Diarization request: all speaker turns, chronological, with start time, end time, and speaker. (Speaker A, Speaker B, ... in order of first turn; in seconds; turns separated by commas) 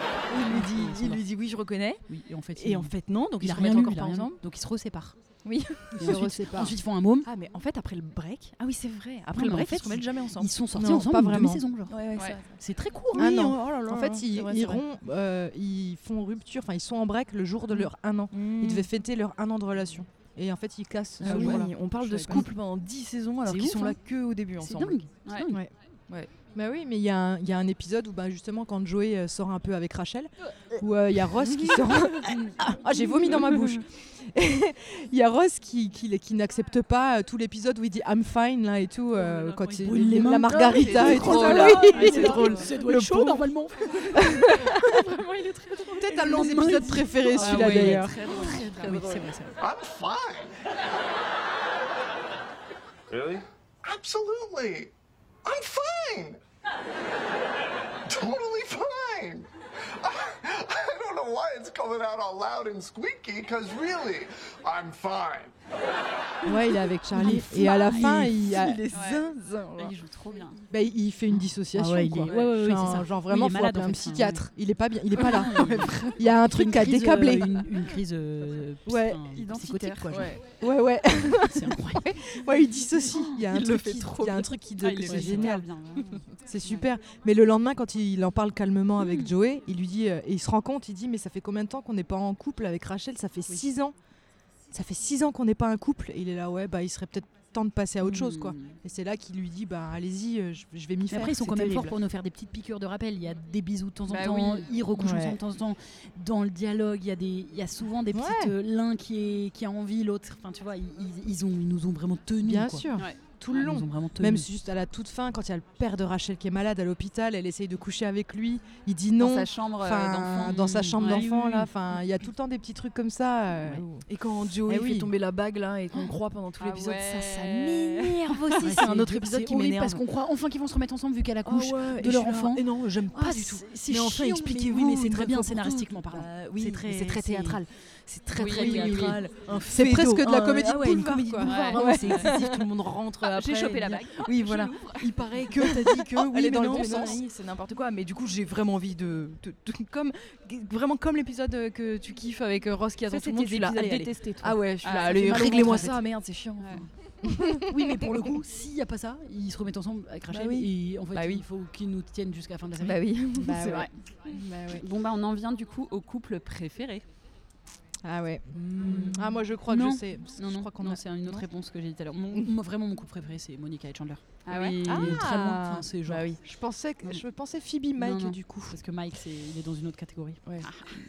Speaker A: 0.3-4.4, Speaker B: 0.5-1.2, Speaker B: 2.1-5.2, Speaker A: 5.5-10.7, Speaker B: 6.0-7.3, Speaker C: 6.0-6.7, Speaker B: 9.3-12.1, Speaker C: 10.7-11.6, Speaker A: 11.9-14.8, Speaker B: 12.6-13.5, Speaker C: 13.2-22.5, Speaker A: 17.7-18.9, Speaker A: 21.2-25.0, Speaker B: 21.2-22.5, Speaker B: 23.5-24.0, Speaker B: 24.6-25.6, Speaker A: 25.5-26.3, Speaker C: 26.6-43.5, Speaker A: 31.4-32.4, Speaker A: 33.2-33.7, Speaker B: 39.1-44.5, Speaker D: 40.7-42.6, Speaker A: 40.9-42.6, Speaker C: 44.2-45.0, Speaker A: 44.9-46.0, Speaker C: 46.0-48.2, Speaker B: 46.0-49.6, Speaker D: 47.4-49.1, Speaker A: 47.4-49.3, Speaker E: 49.6-50.5, Speaker E: 53.1-54.9, Speaker E: 55.4-56.4, Speaker E: 58.1-59.5, Speaker E: 60.0-65.5, Speaker C: 66.5-68.8, Speaker B: 67.2-68.5, Speaker A: 67.2-69.9, Speaker D: 68.9-70.6, Speaker C: 70.7-77.5, Speaker B: 71.7-74.5, Speaker B: 75.2-80.4, Speaker C: 78.9-79.2, Speaker D: 79.3-80.3, Speaker A: 79.9-80.4, Speaker C: 80.5-85.7, Speaker B: 81.3-82.2, Speaker A: 83.5-84.5, Speaker D: 84.8-86.8, Speaker B: 85.0-85.6, Speaker C: 86.5-93.9, Speaker B: 89.0-89.3, Speaker C: 94.7-102.0, Speaker B: 98.0-98.4, Speaker B: 101.1-112.9, Speaker D: 104.1-104.7, Speaker C: 105.0-105.4, Speaker C: 108.1-108.5, Speaker C: 112.4-124.1, Speaker B: 113.5-114.5, Speaker D: 119.2-121.2, Speaker B: 120.5-121.7, Speaker A: 124.1-130.0, Speaker C: 124.7-125.1, Speaker D: 126.6-128.7, Speaker B: 128.6-137.6, Speaker A: 131.4-158.2, Speaker C: 133.9-134.3, Speaker D: 138.4-139.2, Speaker B: 138.4-139.4, Speaker C: 138.6-139.1, Speaker C: 139.7-142.6, Speaker D: 141.4-142.3, Speaker D: 143.2-145.2, Speaker C: 145.5-147.2, Speaker D: 153.1-155.9, Speaker B: 155.1-156.0, Speaker D: 156.6-156.9, Speaker B: 157.6-163.9, Speaker A: 160.3-161.4, Speaker A: 162.8-164.8, Speaker D: 163.6-163.9, Speaker D: 164.7-167.0, Speaker A: 168.1-168.4, Speaker C: 168.2-171.4, Speaker B: 168.6-176.3, Speaker D: 174.5-174.8, Speaker A: 174.5-177.2, Speaker C: 174.9-175.4, Speaker C: 176.4-178.8, Speaker B: 178.0-180.4, Speaker D: 180.6-180.9